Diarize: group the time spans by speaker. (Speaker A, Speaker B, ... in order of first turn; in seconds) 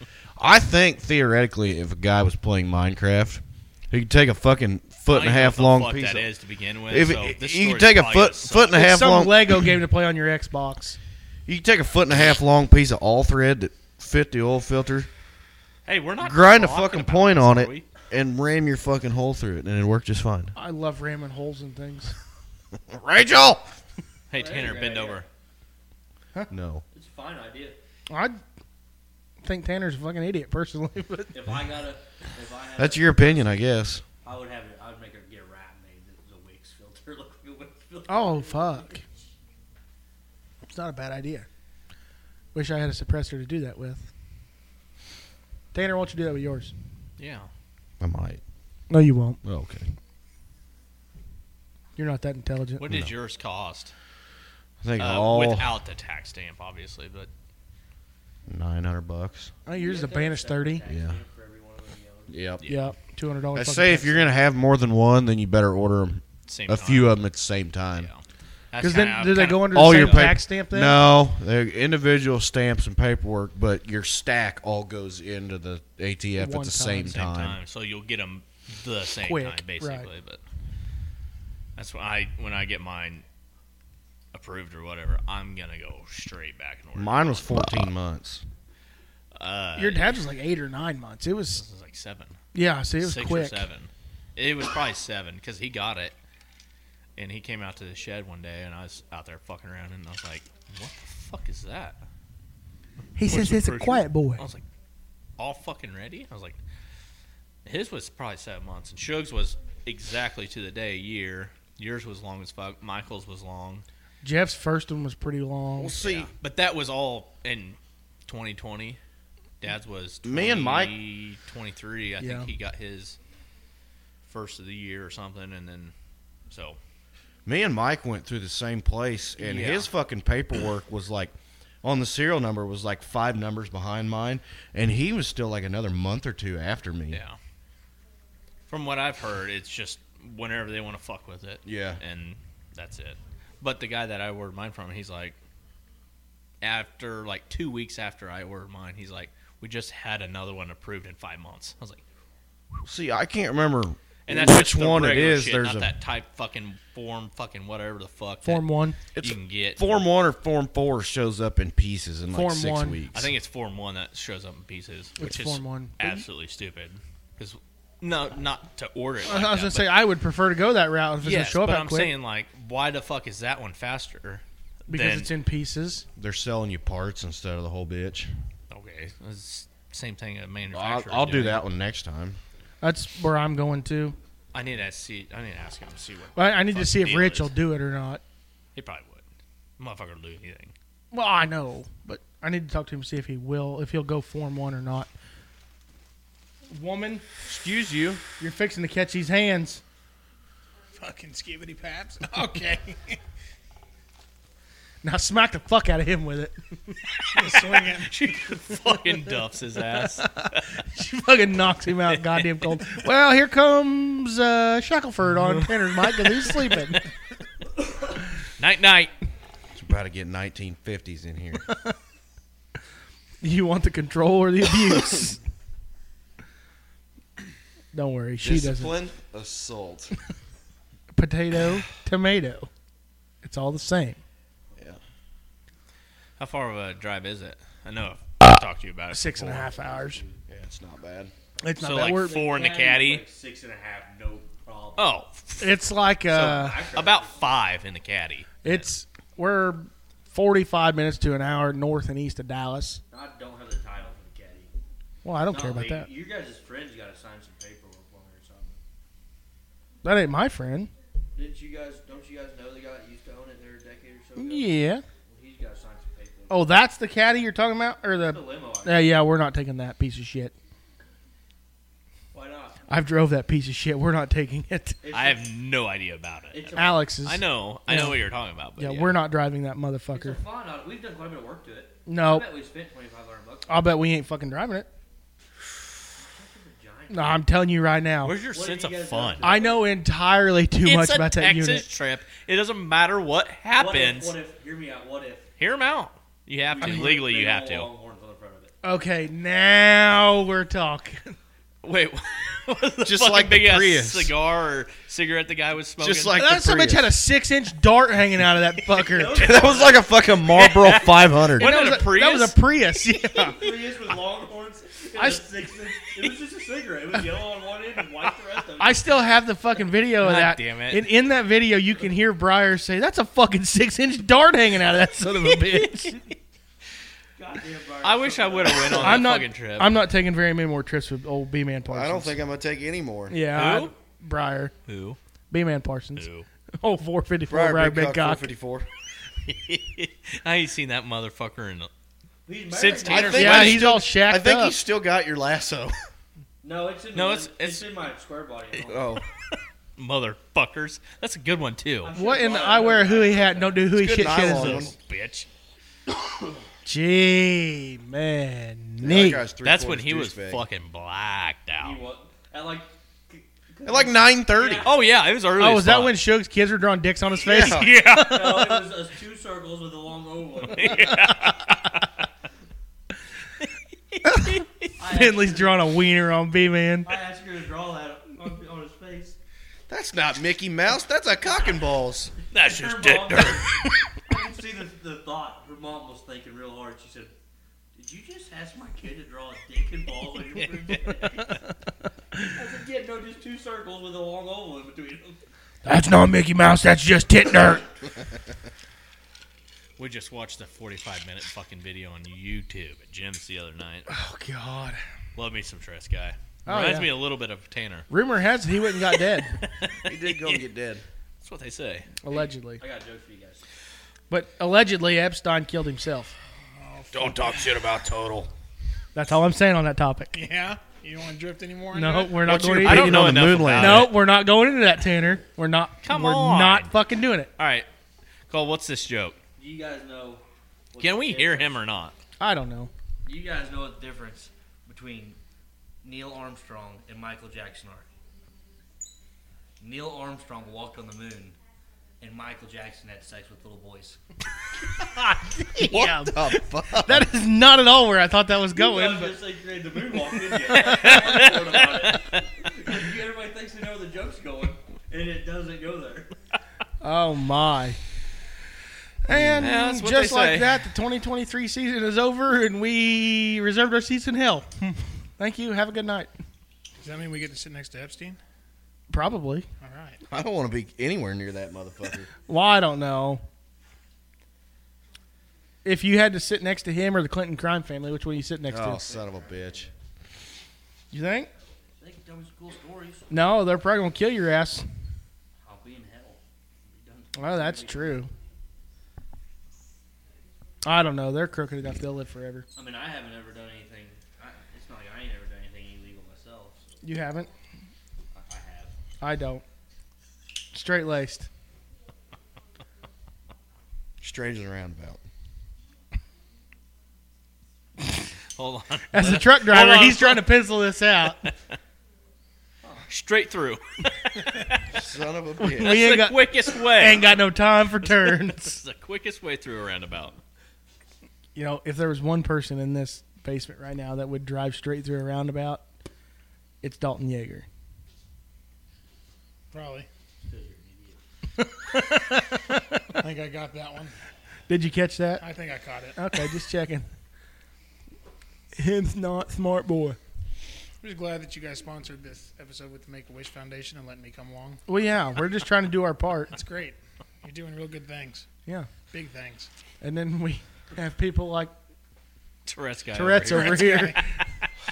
Speaker A: 0.4-6.3, 6.9-9.6, 11.4-15.1, 16.2-20.5, 22.9-23.7, 26.5-26.8, 32.8-34.0, 48.0-48.4, 49.4-49.9, 52.9-53.1, 54.8-55.7, 58.5-59.5, 60.9-61.1, 62.3-62.6, 63.5-68.1, 69.5-77.6, 87.0-88.4, 115.8-116.3, 120.2-120.9, 127.5-137.2, 141.6-142.0, 152.8-155.9, 159.1-163.3, 176.2-178.3, 180.7-182.4, 219.7-221.6, 228.4-230.1, 240.5-241.3, 303.0-304.3, 306.0-307.1, 309.4-311.8, 331.9-333.4, 337.5-338.9, 343.0-345.9, 348.9-349.2, 353.9-354.9, 359.0-360.6, 363.8-364.9, 367.4-367.9, 379.9-382.3, 410.1-411.0, 417.1-418.5, 422.4-424.1, 445.8-447.3, 459.3-459.7, 470.3-472.3, 478.7-479.9, 504.2-505.2, 514.9-516.0
Speaker B: 5.1-8.8, 15.8-17.8, 24.3-25.2, 47.2-47.5, 52.8-53.9, 55.0-57.3, 62.6-62.9, 66.5-67.1, 68.0-70.3, 77.1-80.4, 81.8-83.2, 84.3-87.7, 89.3-90.2, 91.5-92.4, 93.0-96.1, 97.2-102.0, 103.2-104.6, 105.4-106.6, 107.6-113.8, 116.0-119.0, 119.6-123.2, 124.2-125.9, 126.5-126.8, 129.4-129.9, 137.1-137.4, 138.7-145.3, 146.6-152.0, 154.2-160.0, 163.1-169.9, 171.2-175.3, 178.7-181.6, 184.5-187.5, 188.7-189.2, 189.8-190.7, 197.5-198.2, 207.4-210.5, 212.1-212.8, 215.4-216.9, 218.6-219.1, 236.4-239.7, 241.8-243.2, 245.0-245.8, 246.9-248.9, 275.1-279.2, 288.2-289.5, 290.8-294.4, 295.6-297.9, 301.8-306.4, 310.5-312.6, 320.2-321.1, 325.4-326.3, 328.0-330.0, 333.5-333.9, 334.9-335.2, 336.1-336.4, 339.4-341.9, 342.7-343.9, 347.1-347.9, 350.0-352.1, 354.2-355.5, 359.6-362.0, 364.8-366.2, 367.6-368.4, 370.7-372.1, 374.1-374.8, 382.5-383.9, 390.5-391.3, 400.0-404.1, 405.4-408.1, 409.1-410.7, 411.4-412.1, 422.6-424.3, 426.0-426.9, 427.6-427.9, 428.5-429.4, 431.0-432.1, 450.7-452.4, 459.6-460.9, 508.6-510.6, 513.1-513.8, 514.3-514.8, 515.7-517.4, 518.0-520.4, 552.6-553.9
Speaker C: 8.7-11.0, 20.5-22.1, 28.1-28.4, 29.4-31.3, 38.1-39.0, 40.7-41.5, 42.5-44.1, 45.7-46.7, 48.9-49.4, 52.0-52.8, 59.6-60.8, 62.6-64.4, 68.8-71.0, 76.4-77.2, 79.2-80.1, 89.8-91.6, 92.5-93.6, 103.2-104.4, 114.2-116.0, 122.2-122.5, 158.4-159.0, 162.3-163.0, 165.2-166.2, 169.2-172.1, 174.9-176.1, 182.8-184.2, 186.3-188.2, 191.1-195.1, 196.7-197.2, 198.4-199.8, 205.0-207.0, 208.7-209.0, 209.9-217.0, 223.4-225.4, 227.9-228.9, 231.1-232.7, 233.4-234.2, 239.1-240.2, 241.6-242.5, 245.6-246.8, 248.6-253.0, 255.2-256.1, 260.0-260.9, 264.4-265.0, 266.5-270.5, 272.9-275.0, 276.7-278.2, 278.8-280.4, 282.1-282.4, 283.7-284.9, 287.1-288.4, 289.4-291.8, 296.8-297.2, 298.8-301.4, 306.3-309.6, 311.6-313.6, 315.2-315.4, 318.8-326.2, 328.8-332.3, 333.3-334.7, 335.5-336.3, 336.8-338.4, 343.3-344.8, 352.1-354.9, 356.8-359.4, 365.6-368.8, 375.0-377.1, 395.8-397.9, 404.1-405.0, 406.6-407.1, 408.1-409.6, 412.2-412.8, 414.3-416.3, 419.1-420.3, 421.9-427.5, 432.4-432.9, 445.1-449.4, 450.7-451.2, 457.0-458.0, 459.2-466.3, 469.1-469.7, 472.4-473.4, 475.8-479.0, 481.1-481.5, 483.3-484.9, 487.4-488.3, 490.8-492.6, 497.0-497.5, 499.2-499.6, 500.7-501.5, 509.1-511.4, 515.6-518.7, 521.5-525.8, 526.8-527.6, 531.6-533.0, 534.7-535.4, 536.1-537.1, 538.7-540.2, 544.9-546.5, 550.0-551.7, 553.1-554.2
Speaker D: 24.3-25.3, 26.9-27.8, 31.3-33.5, 34.2-39.1, 59.7-62.3, 234.7-235.0, 239.7-240.4, 242.0-245.1, 246.3-247.6, 253.1-254.7, 255.5-258.8, 261.3-266.6, 268.2-269.2, 272.3-272.8, 275.0-275.5, 276.5-277.1, 280.1-283.8, 286.2-287.4, 288.5-289.9, 293.8-295.5, 296.7-298.7, 309.1-310.4, 313.4-319.0, 327.4-329.3, 342.4-343.7, 346.6-349.2, 352.0-353.9, 361.8-364.9, 368.1-371.1, 375.0-375.8, 377.0-379.4, 382.6-387.3, 387.9-391.5, 392.5-395.4, 412.3-413.6, 429.6-431.8, 433.2-435.4, 436.0-438.1, 439.8-441.6, 442.2-444.2, 448.7-456.3, 479.0-479.9, 482.0-483.3, 485.6-488.2, 492.7-497.0, 498.3-498.9, 512.8-513.1, 530.4-531.2
Speaker E: 200.9-203.2, 207.3-208.3, 416.6-417.7, 420.3-422.6, 467.0-468.4, 469.8-470.2, 529.7-530.1, 533.2-534.1, 535.4-536.2, 541.0-544.8, 546.5-548.5, 549.1-549.7, 553.5-554.2